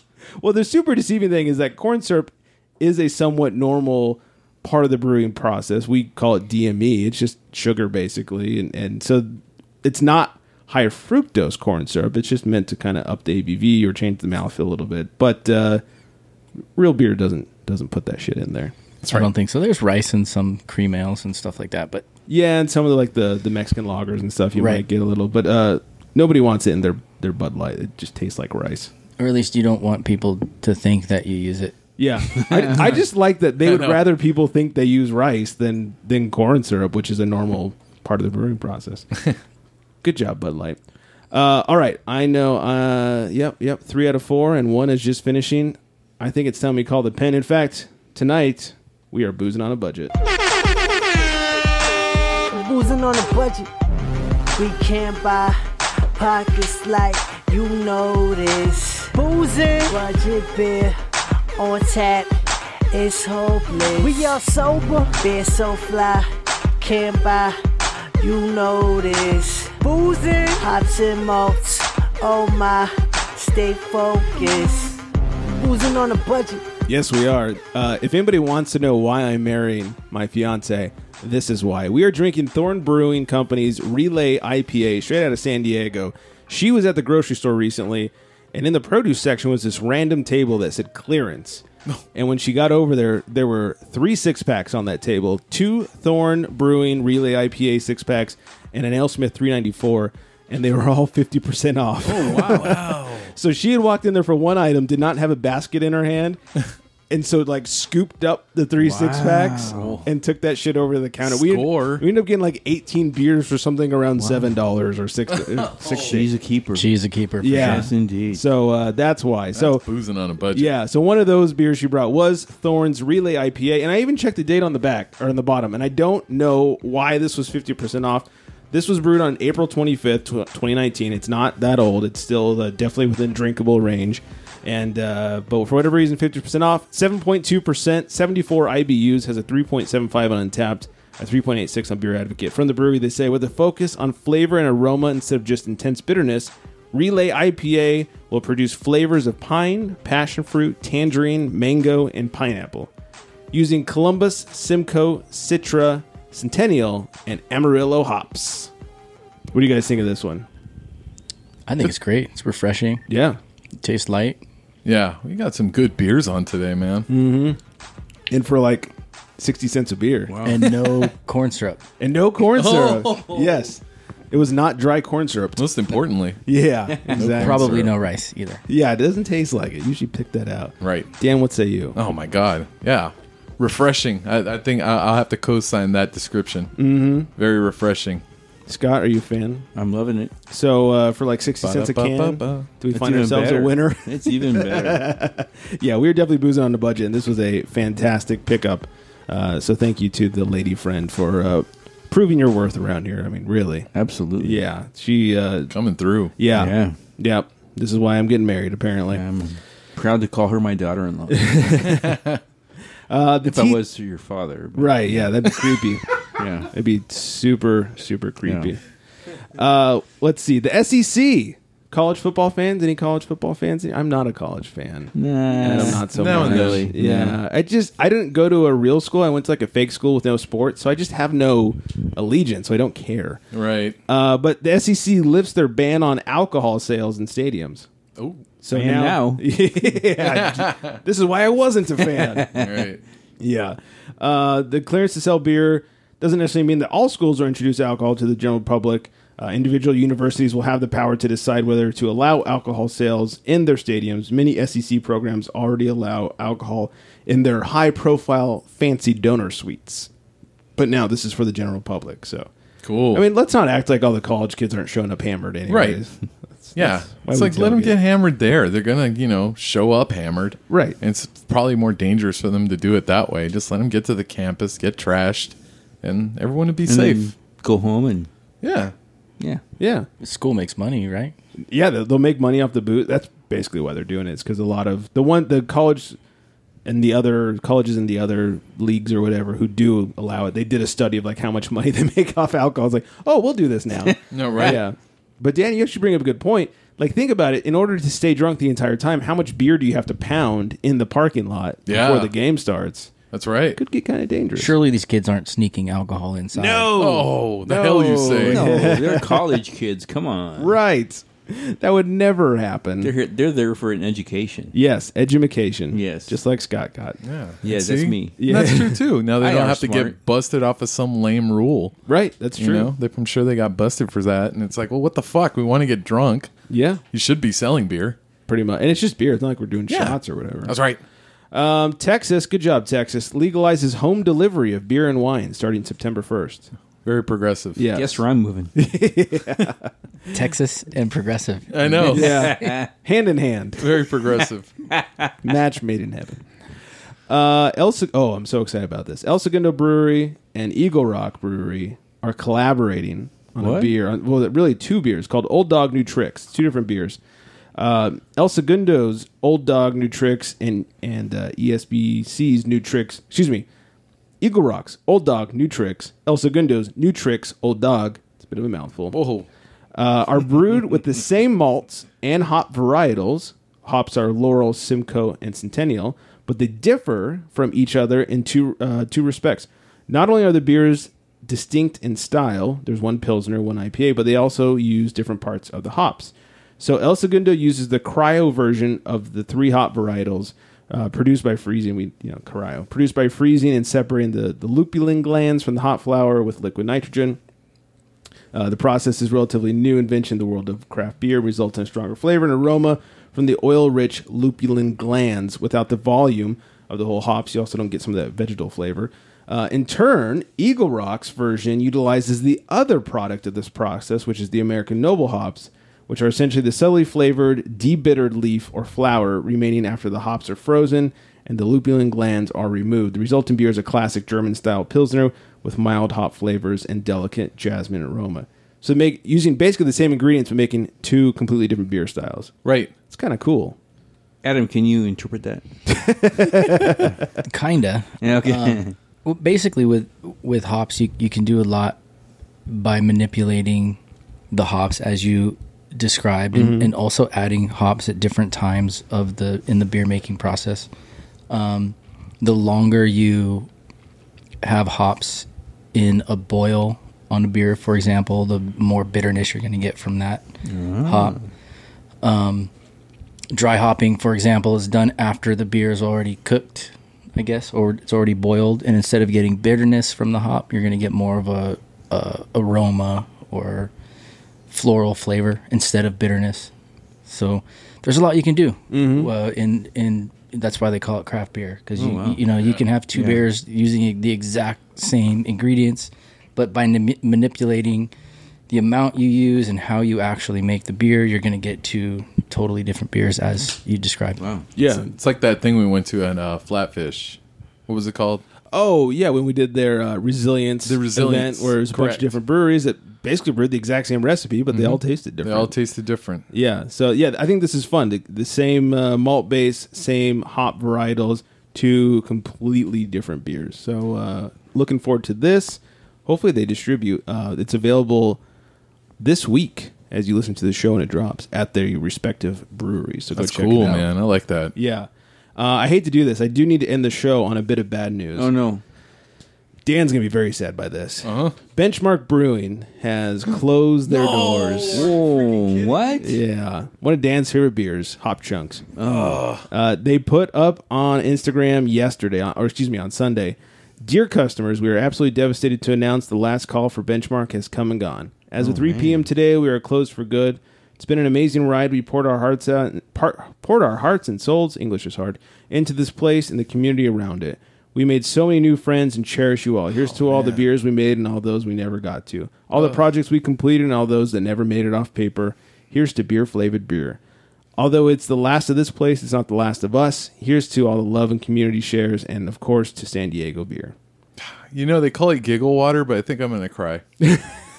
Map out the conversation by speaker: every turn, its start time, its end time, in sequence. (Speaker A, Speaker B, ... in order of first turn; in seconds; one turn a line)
Speaker A: 0.4-15.8
Speaker A: 16.8-19.3
Speaker B: 19.1-22.0
Speaker A: 22.3-28.9
Speaker B: 24.6-24.8
Speaker B: 29.2-31.8
Speaker A: 32.0-39.1
Speaker C: 33.6-34.0
Speaker A: 40.0-40.8
Speaker A: 41.3-50.1
Speaker D: 52.5-53.7
Speaker D: 54.5-55.6
Speaker D: 56.1-61.0
Speaker D: 61.6-67.6
Speaker D: 68.2-76.6
Speaker A: 76.9-106.4
Speaker E: 102.0-103.2
Speaker C: 102.3-103.3
Speaker A: 107.1-116.3
Speaker E: 108.8-110.0
Speaker C: 109.7-110.1
Speaker C: 111.2-112.0
Speaker E: 114.2-114.5
Speaker C: 115.4-116.2
Speaker E: 116.0-116.9
Speaker B: 116.7-117.9
Speaker A: 117.4-119.8
Speaker E: 117.4-118.4
Speaker C: 119.5-120.7
Speaker A: 120.5-152.9
Speaker A: 153.5-158.7
Speaker A: 159.5-160.5
Speaker B: 161.7-163.0
Speaker A: 163.1-163.4
Speaker B: 163.8-164.4
Speaker C: 164.8-167.1
Speaker A: 167.1-167.6
Speaker A: 168.3-170.3
Speaker E: 170.3-170.7
Speaker B: 170.4-171.8
Speaker A: 172.0-175.7
Speaker C: 172.5-173.7
Speaker C: 175.6-176.4
Speaker A: 176.4-177.9
Speaker C: 177.1-177.9
Speaker B: 177.3-178.6
Speaker A: 178.7-182.0
Speaker C: 180.8-181.1
Speaker C: 181.9-186.7
Speaker A: 186.8-187.3
Speaker C: 187.3-188.2
Speaker A: 188.7-189.7
Speaker E: 189.7-190.3
Speaker A: 190.5-205.7
Speaker C: 191.6-192.7
Speaker E: 192.9-195.1
Speaker E: 203.9-204.6
Speaker C: 205.7-206.3
Speaker A: 206.4-209.2
Speaker E: 206.5-206.9
Speaker E: 209.1-211.8
Speaker A: 211.3-212.2
Speaker C: 212.0-212.4
Speaker A: 213.1-213.8
Speaker E: 213.4-215.3
Speaker A: 214.8-216.0
Speaker E: 216.4-216.7
Speaker A: 216.7-218.8
Speaker E: 218.4-218.7
Speaker A: 219.6-233.4
Speaker E: 225.2-227.4
Speaker C: 225.7-226.9
Speaker C: 233.5-234.0
Speaker A: 234.1-237.9
Speaker C: 238.2-238.5
Speaker A: 238.6-242.5
Speaker E: 238.7-239.4
Speaker C: 240.1-241.0
Speaker E: 242.2-242.9
Speaker C: 242.5-243.0
Speaker A: 243.4-260.1
Speaker A: 260.8-262.5
Speaker C: 262.8-263.2
Speaker A: 263.1-268.0
Speaker C: 265.7-266.0
Speaker C: 266.8-277.3
Speaker A: 270.7-271.0
Speaker E: 276.9-278.3
Speaker C: 278.6-278.9
Speaker A: 279.8-280.1
Speaker B: 280.2-281.3
Speaker A: 281.7-286.2
Speaker A: 286.8-303.1
Speaker E: 294.1-294.8
Speaker C: 294.3-294.8
Speaker C: 301.9-302.3
Speaker C: 303.3-303.8
Speaker A: 303.7-304.7
Speaker B: 304.5-306.9
Speaker A: 306.5-309.6
Speaker C: 306.9-309.0
Speaker E: 308.2-310.8
Speaker A: 310.6-313.1
Speaker E: 313.0-314.7
Speaker A: 314.7-317.2
Speaker E: 315.9-316.4
Speaker C: 317.2-321.9
Speaker E: 317.6-318.4
Speaker A: 318.4-319.0
Speaker E: 319.4-320.2
Speaker A: 322.1-322.9
Speaker C: 322.6-326.5
Speaker A: 326.7-327.0
Speaker C: 327.1-328.2
Speaker A: 328.5-330.7
Speaker C: 329.9-331.0
Speaker A: 331.5-336.7
Speaker C: 337.0-337.9
Speaker A: 337.7-338.2
Speaker E: 337.9-338.7
Speaker A: 338.7-339.9
Speaker B: 340.3-341.9
Speaker C: 341.7-342.5
Speaker E: 342.0-342.9
Speaker A: 342.0-344.1
Speaker C: 343.8-344.7
Speaker E: 344.2-345.3
Speaker A: 345.4-346.4
Speaker A: 347.3-357.2
Speaker E: 353.6-353.9
Speaker A: 357.8-363.6
Speaker A: 364.4-369.2
Speaker C: 369.1-369.4
Speaker A: 369.9-397.4
Speaker A: 398.5-432.5
Speaker C: 432.6-432.9
Speaker A: 433.1-433.8
Speaker E: 434.4-435.6
Speaker A: 435.9-437.2
Speaker B: 437.4-442.0
Speaker E: 438.2-438.9
Speaker B: 442.7-444.0
Speaker B: 444.5-450.9
Speaker A: 446.5-446.9
Speaker B: 451.5-453.7
Speaker B: 454.6-460.4
Speaker E: 460.6-461.5
Speaker B: 461.0-461.4
Speaker B: 462.2-462.7
Speaker B: 463.5-473.9
Speaker B: 474.7-476.7
Speaker B: 477.2-488.1
Speaker A: 478.9-479.3
Speaker E: 482.0-482.4
Speaker E: 483.1-483.4
Speaker B: 488.7-494.4
Speaker E: 494.4-494.7
Speaker A: 494.8-495.1
Speaker C: 495.0-498.4
Speaker A: 498.7-505.7
Speaker C: 500.8-502.3
Speaker C: 504.7-506.4
Speaker A: 506.5-518.4
Speaker A: 519.2-524.1
Speaker C: 523.3-524.7
Speaker A: 524.7-528.5
Speaker E: 528.4-528.8
Speaker A: 529.8-535.1
Speaker C: 531.2-531.5
Speaker C: 534.1-536.1
Speaker E: 534.9-536.3
Speaker A: 536.2-538.9
Speaker E: 539.0-539.5
Speaker C: 539.0-539.6
Speaker A: 539.7-567.2
Speaker E: 548.6-549.2
Speaker C: 562.7-563.0
Speaker A: 567.8-573.9
Speaker C: 574.4-577.0